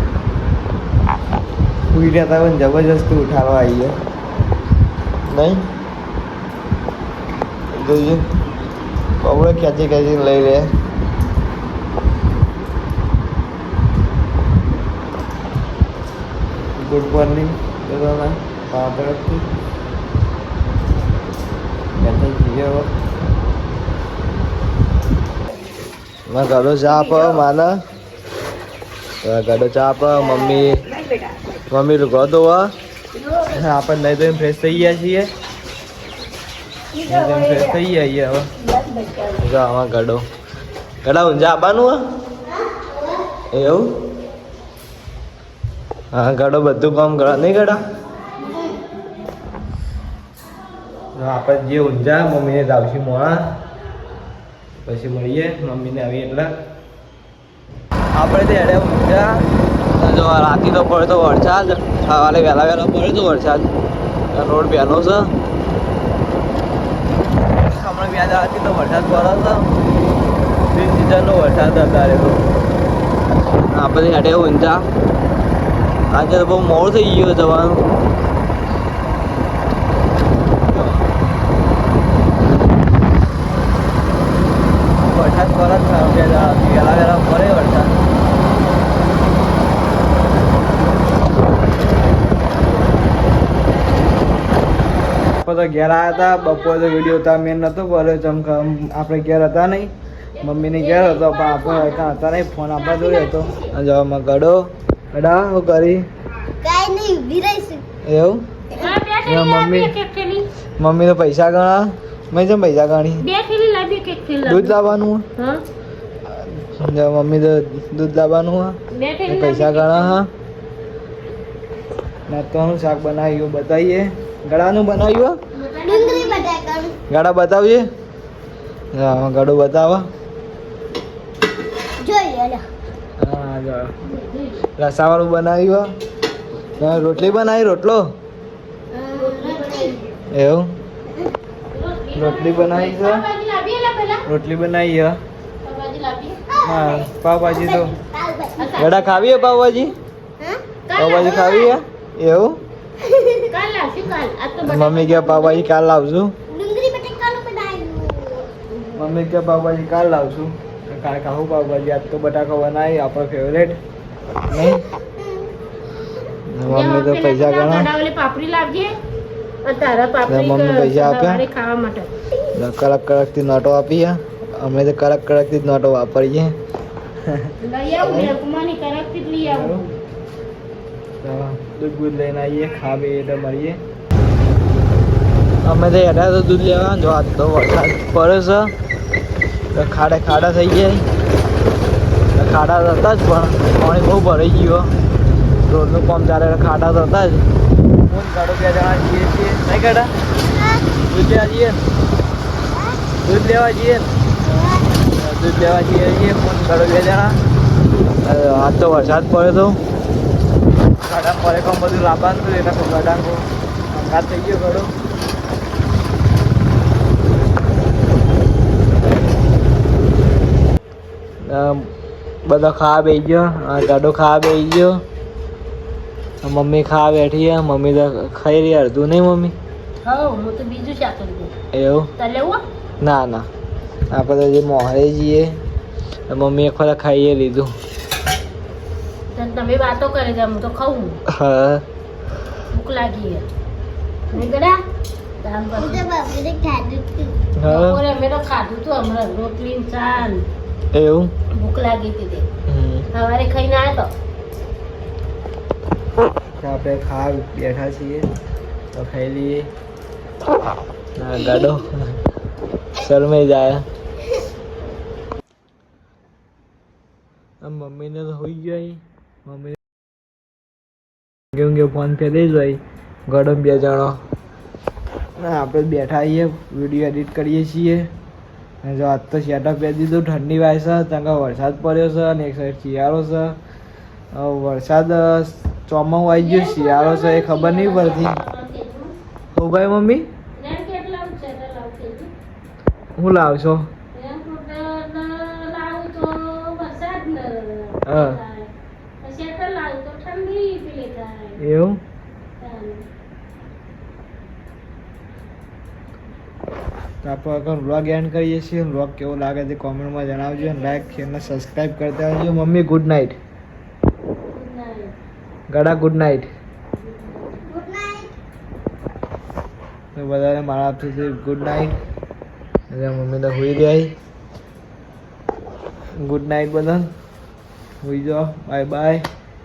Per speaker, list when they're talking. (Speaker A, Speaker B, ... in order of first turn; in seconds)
Speaker A: 1.9-4.0, 5.2-5.7, 7.7-8.2, 9.2-10.7, 16.8-19.5, 21.9-22.9, 26.3-27.8, 29.2-30.9, 31.7-32.7, 33.5-35.3, 37.1-38.5, 39.4-40.2, 41.0-42.0, 43.5-43.9, 46.1-47.8, 51.1-53.5, 54.8-56.5, 58.1-59.4, 59.9-63.7, 64.3-65.3, 67.6-69.7, 70.7-72.4, 73.7-74.9, 76.1-77.8, 80.7-81.0, 85.0-87.9, 95.4-106.0, 108.0-108.4, 109.2-109.9, 110.8-113.2, 114.4-115.2, 116.3-118.8, 119.3-120.3, 122.3-125.3, 127.1-127.8, 128.9-130.1, 133.2-133.9, 134.8-135.9, 136.8-138.1, 140.3-140.7, 142.1-143.2, 144.2-145.2, 146.6-147.9, 148.8-149.9, 150.9-152.6, 154.6-156.3, 158.9-163.8, 164.5-164.8, 166.5-167.9, 170.3-171.4, 172.5-176.5, 178.0-178.3, 179.4-179.8, 181.2-183.8, 185.6-188.7, 189.7-191.0, 192.3-194.9, 195.7-197.4, 198.1-200.1, 201.1-201.8, 203.2-204.1, 205.1-207.4, 208.2-209.8, 211.0-214.9, 221.4-221.9, 222.4-225.0, 226.4-229.5, 231.7-232.1, 233.0-233.5, 234.1-235.6, 236.3-237.7, 241.3-241.8, 247.6-248.0, 250.9-251.3, 252.7-253.1, 256.6-258.3, 258.9-259.7, 261.2-262.1, 262.9-263.9, 267.6-269.8, 271.5-274.2, 275.4-278.1, 278.8-283.6, 284.3-288.4, 289.5-290.3, 293.2-293.9, 298.1-298.4, 301.6-302.0, 307.2-313.3, 315.7-316.5, 320.1-321.9, 322.9-324.1, 326.2-327.1, 328.0-329.2
Speaker B: 37.0-37.7, 38.7-39.4, 42.7-43.0, 106.6-107.8, 125.8-127.0, 132.0-132.6, 138.9-139.9, 146.5-148.8, 151.1-151.7, 153.0-153.5, 156.5-158.7, 200.5-200.8, 204.4-204.9, 245.8-247.3, 317.6-318.3
Speaker C: 96.3-97.0, 100.4-102.2, 102.8-103.7, 108.7-110.5, 113.2-114.8, 115.3-115.6, 118.9-120.2, 125.5-126.5, 134.0-134.6, 139.1-140.1, 141.7-144.2, 145.6-146.4, 148.6-149.4, 150.9-151.7, 153.5-155.7, 166.7-169.0, 169.6-172.1, 177.6-179.9, 230.0-231.5, 232.2-232.6, 239.3-241.2, 242.7-243.4, 244.3-244.8, 245.4-246.1, 247.7-250.4, 251.5-252.5, 253.1-254.1, 286.3-289.1, 290.6-292.3, 294.1-298.7, 299.2-301.6, 302.6-303.1, 310.3-311.6, 314.5-315.1, 316.9-317.6